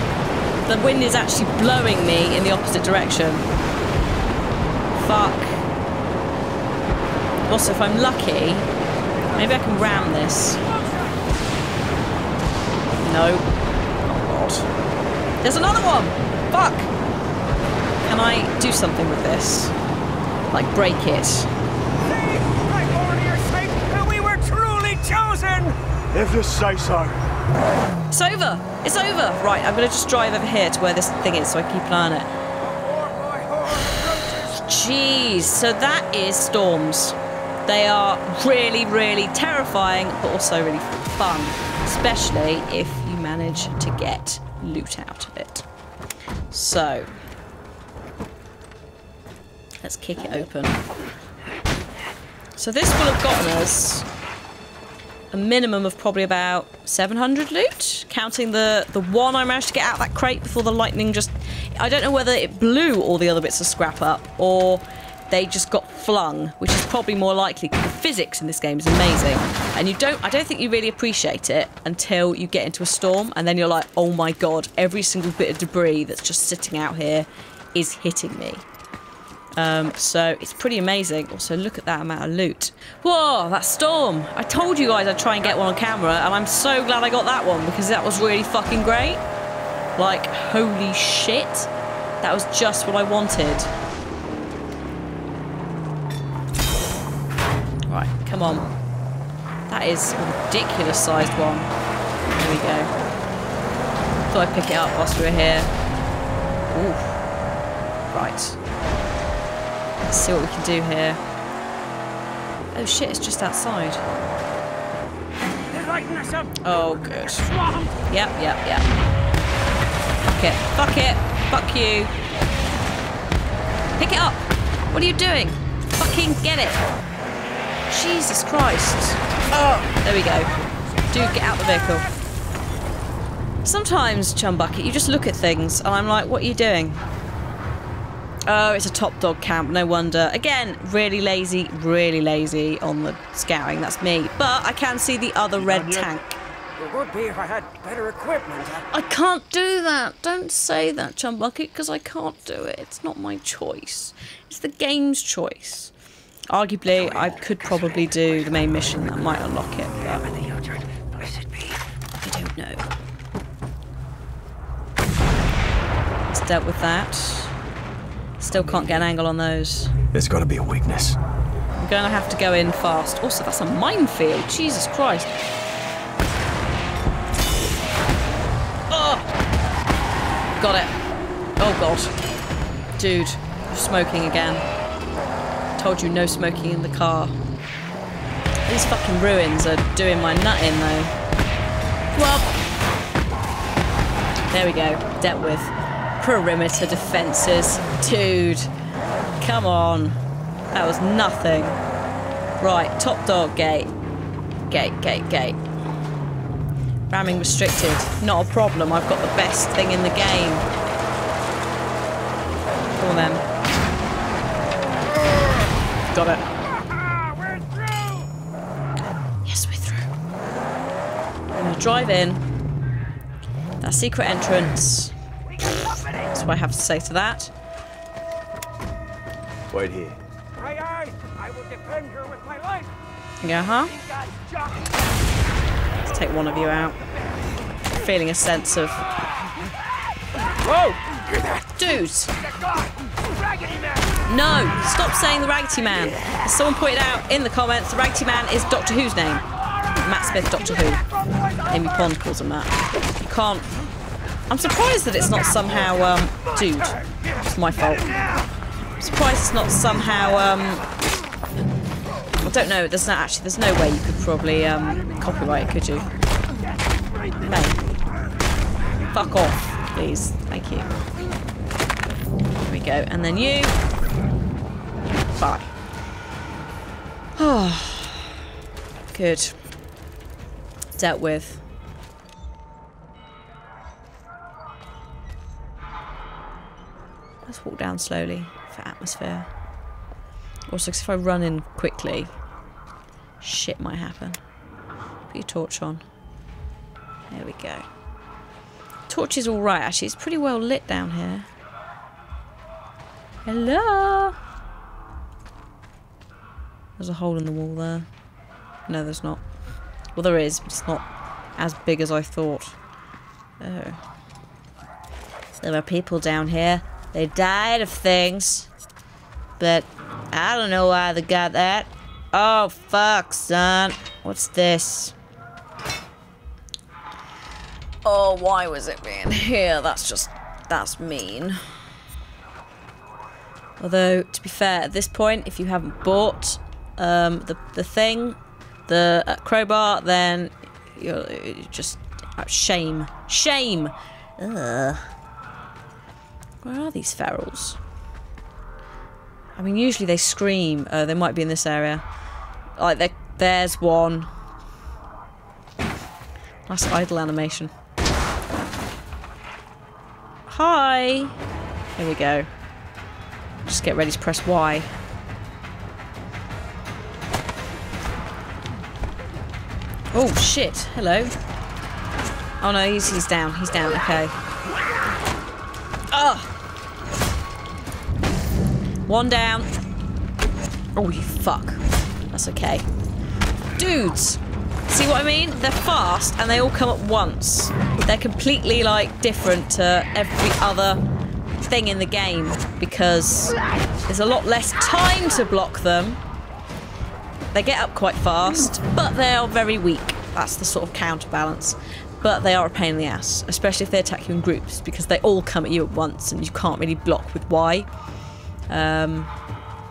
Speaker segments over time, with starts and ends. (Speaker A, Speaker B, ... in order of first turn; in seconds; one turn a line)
Speaker A: 0.7-3.4
Speaker A: 4.9-5.6
Speaker A: 7.5-8.7
Speaker A: 9.3-10.6
Speaker A: 13.0-13.5
Speaker A: 14.1-14.7
Speaker A: 15.4-16.9
Speaker A: 18.0-19.7
Speaker A: 20.5-21.5
Speaker B: 22.0-25.8
Speaker C: 26.1-27.2
Speaker A: 28.1-32.3
Speaker B: 32.7-34.2
Speaker A: 34.4-45.6
Speaker A: 46.5-47.1
Speaker A: 49.8-50.8
Speaker A: 52.6-54.0
Speaker A: 55.3-78.7
Speaker A: 79.5-89.2
Speaker A: 90.0-91.7
Speaker A: 92.2-93.7
Speaker A: 97.9-98.7
Speaker A: 99.7-101.7
Speaker A: 102.3-102.9
Speaker A: 104.3-105.7
Speaker A: 106.7-107.2
Speaker A: 108.1-108.6
Speaker A: 110.1-111.2
Speaker A: 112.7-114.0
Speaker B: 115.8-116.5
Speaker A: 116.6-117.5
Speaker A: 118.1-118.8
Speaker A: 120.2-122.1
Speaker A: 124.0-126.8
Speaker A: 127.9-130.5
Speaker A: 131.1-132.1
Speaker A: 133.6-137.0
Speaker A: 138.4-146.4
Speaker B: 146.8-148.6
Speaker A: 148.8-155.9
Speaker A: 156.5-160.3
Speaker A: 162.2-162.9
Speaker A: 166.3-167.5
Speaker A: 168.4-169.9
Speaker C: 170.1-171.2
Speaker A: 171.8-175.3
Speaker A: 178.9-179.2
Speaker A: 180.6-180.9
Speaker A: 181.6-182.1
Speaker A: 183.0-184.6
Speaker A: 185.8-187.3
Speaker A: 188.7-191.1
Speaker A: 192.1-192.5
Speaker A: 194.5-198.7
Speaker A: 199.4-200.2
Speaker A: 200.7-201.8
Speaker A: 202.6-203.9
Speaker A: 204.7-205.6
Speaker A: 207.1-210.7
Speaker A: 212.9-213.4
Speaker A: 216.1-216.4
Speaker A: 219.4-220.1
Speaker A: 221.5-222.4
Speaker A: 223.8-225.1
Speaker A: 226.2-227.5
Speaker C: 229.7-230.2
Speaker B: 230.6-232.8
Speaker A: 233.4-233.9
Speaker A: 236.1-237.0
Speaker A: 237.9-239.0
Speaker A: 240.6-241.0
Speaker A: 241.7-242.3
Speaker A: 244.2-249.4
Speaker A: 249.9-251.0
Speaker A: 251.6-252.7
Speaker A: 253.2-253.7
Speaker A: 254.5-258.1
Speaker A: 259.0-260.9
Speaker A: 262.4-266.1
Speaker A: 267.4-267.8
Speaker A: 269.1-270.9
Speaker A: 272.6-273.7
Speaker A: 275.3-275.7
Speaker A: 277.4-278.3
Speaker A: 279.1-279.5
Speaker A: 281.0-281.6
Speaker A: 287.4-289.5
Speaker A: 290.7-292.3
Speaker A: 293.4-294.4
Speaker A: 295.3-296.0
Speaker A: 297.3-297.8
Speaker A: 299.1-301.5
Speaker A: 303.4-304.4
Speaker A: 307.0-308.1
Speaker A: 308.9-309.4
Speaker A: 310.1-311.0
Speaker A: 311.6-312.7
Speaker A: 313.6-314.0
Speaker A: 315.6-318.7
Speaker A: 319.6-325.1
Speaker A: 328.0-331.6
Speaker A: 333.8-345.1
Speaker A: 346.6-347.8
Speaker A: 349.6-352.0
Speaker A: 352.8-354.3
Speaker A: 356.7-357.7
Speaker A: 360.5-361.4
Speaker A: 361.9-362.5
Speaker A: 363.6-364.9
Speaker A: 370.1-371.3
Speaker A: 372.6-374.3
Speaker A: 376.1-376.5
Speaker A: 379.1-379.7
Speaker A: 380.9-382.9
Speaker A: 383.8-391.0
Speaker A: 391.6-393.6
Speaker A: 394.1-396.2
Speaker A: 397.5-407.9
Speaker A: 408.7-409.3